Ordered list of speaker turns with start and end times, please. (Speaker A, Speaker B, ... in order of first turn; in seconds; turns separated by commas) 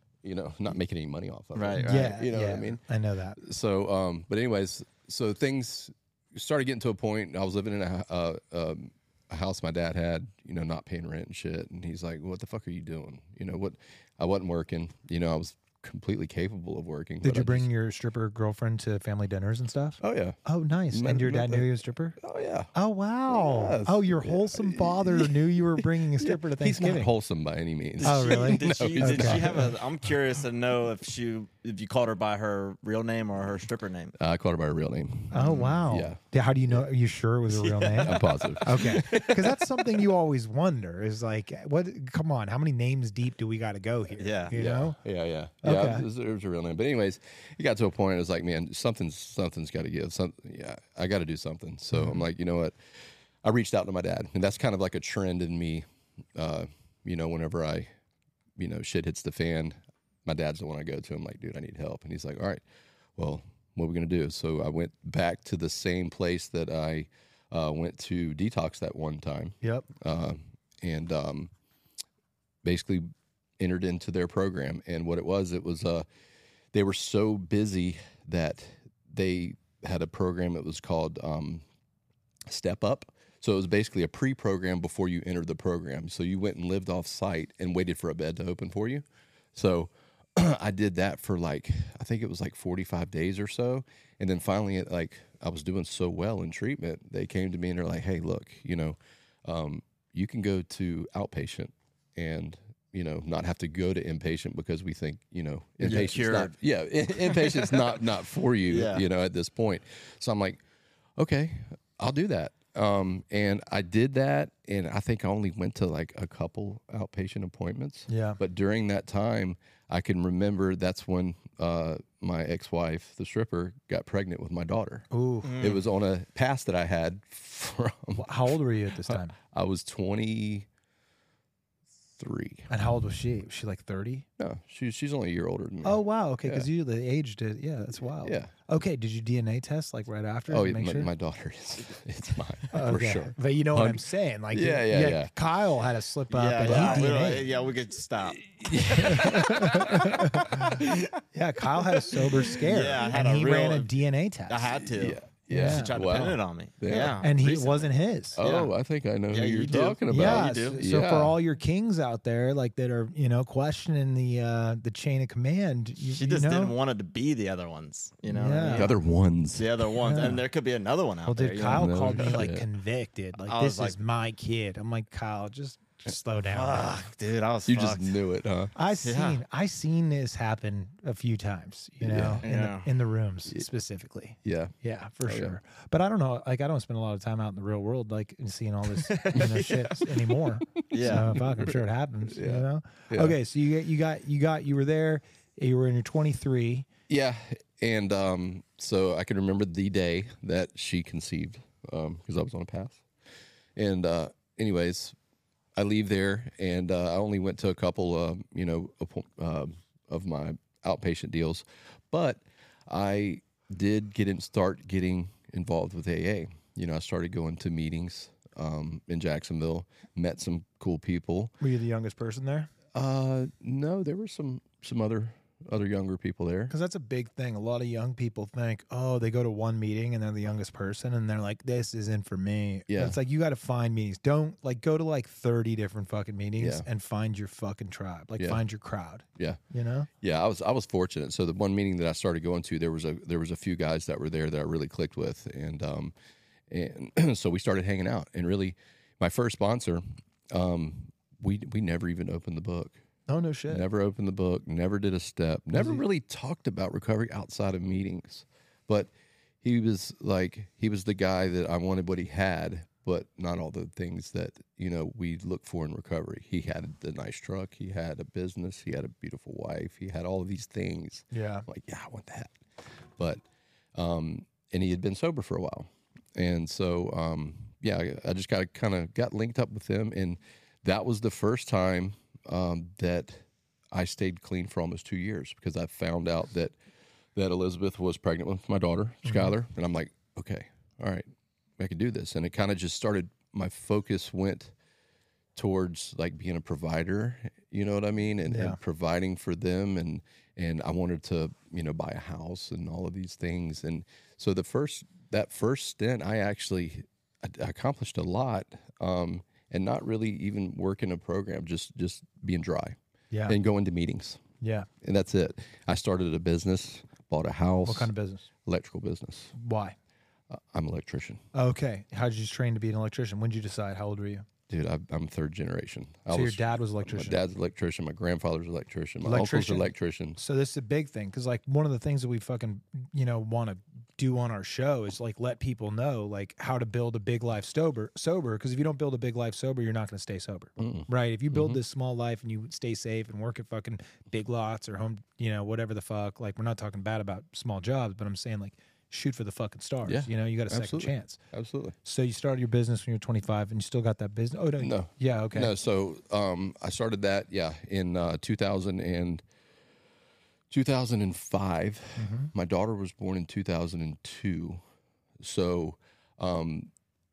Speaker A: 0.2-2.8, Speaker B: 1.5-2.1, Speaker C: 1.8-3.4, Speaker A: 3.4-17.7, Speaker C: 17.2-22.2, Speaker A: 20.0-20.4, Speaker A: 20.9-22.7, Speaker C: 22.7-27.1, Speaker A: 23.3-29.7, Speaker B: 28.0-34.1, Speaker C: 28.0-29.8, Speaker A: 34.2-36.8, Speaker C: 35.3-45.0, Speaker B: 35.3-35.8, Speaker B: 37.5-38.6, Speaker A: 38.0-39.6, Speaker B: 44.2-44.5, Speaker A: 44.5-57.9, Speaker C: 45.6-46.1, Speaker C: 51.9-52.2, Speaker A: 58.6-62.6, Speaker A: 63.1-71.5, Speaker C: 69.6-69.9, Speaker A: 72.6-76.0, Speaker A: 76.7-81.6, Speaker A: 82.5-110.6, Speaker B: 105.8-106.5, Speaker B: 107.2-108.0, Speaker B: 108.7-109.0, Speaker A: 111.2-125.1, Speaker C: 118.1-118.4, Speaker C: 125.1-125.6, Speaker B: 125.4-125.8, Speaker A: 125.6-130.7, Speaker C: 128.1-129.4, Speaker A: 132.2-132.7, Speaker C: 132.7-134.2, Speaker A: 134.4-136.7, Speaker C: 135.8-141.1, Speaker A: 138.2-138.5, Speaker A: 140.5-145.3, Speaker C: 142.7-147.5, Speaker B: 146.3-148.4, Speaker A: 146.6-147.4, Speaker A: 148.3-151.1, Speaker C: 148.9-154.7, Speaker A: 152.1-152.4, Speaker B: 152.5-153.9, Speaker B: 154.5-158.7, Speaker A: 154.7-157.2, Speaker C: 155.5-156.2, Speaker C: 157.2-158.4, Speaker A: 158.4-161.4, Speaker B: 159.3-160.8, Speaker C: 160.1-166.7, Speaker B: 166.0-168.9, Speaker C: 168.3-168.9, Speaker A: 168.7-169.8, Speaker B: 169.6-172.4, Speaker C: 170.0-170.4, Speaker C: 171.2-177.0, Speaker A: 171.7-172.7, Speaker B: 173.4-174.0, Speaker B: 176.5-178.1, Speaker A: 177.7-178.7, Speaker C: 178.8-196.9, Speaker B: 179.0-179.4, Speaker A: 182.0-182.4, Speaker B: 182.4-182.9, Speaker A: 184.4-184.7, Speaker A: 185.2-185.6, Speaker B: 189.0-190.1, Speaker B: 190.9-191.4, Speaker A: 190.9-191.7, Speaker A: 192.3-193.4, Speaker A: 197.1-203.1, Speaker A: 203.8-205.2, Speaker A: 205.8-221.6, Speaker C: 221.6-222.7, Speaker A: 222.9-226.7, Speaker C: 226.7-240.1, Speaker A: 232.9-233.2, Speaker A: 236.6-236.9, Speaker A: 240.2-246.1, Speaker A: 246.7-253.0, Speaker C: 253.3-253.9, Speaker A: 253.7-259.1, Speaker C: 255.8-256.0, Speaker A: 259.6-272.6, Speaker C: 271.3-271.6, Speaker A: 273.2-273.4, Speaker A: 273.9-286.7, Speaker A: 287.4-291.3, Speaker C: 289.2-289.5, Speaker A: 291.8-294.7, Speaker A: 295.6-313.0, Speaker C: 298.5-298.8, Speaker C: 313.3-313.6, Speaker A: 313.5-314.4, Speaker C: 314.6-314.9, Speaker A: 315.0-318.1, Speaker C: 317.9-318.5, Speaker A: 318.6-319.5, Speaker C: 319.6-319.9, Speaker A: 320.5-321.4, Speaker C: 321.5-324.4, Speaker A: 324.7-330.4, Speaker C: 326.3-327.4, Speaker C: 329.2-351.4, Speaker A: 340.8-341.8, Speaker A: 350.1-351.9, Speaker C: 352.0-355.7, Speaker A: 354.8-359.4, Speaker A: 360.7-364.8, Speaker C: 362.2-362.5, Speaker A: 365.4-366.9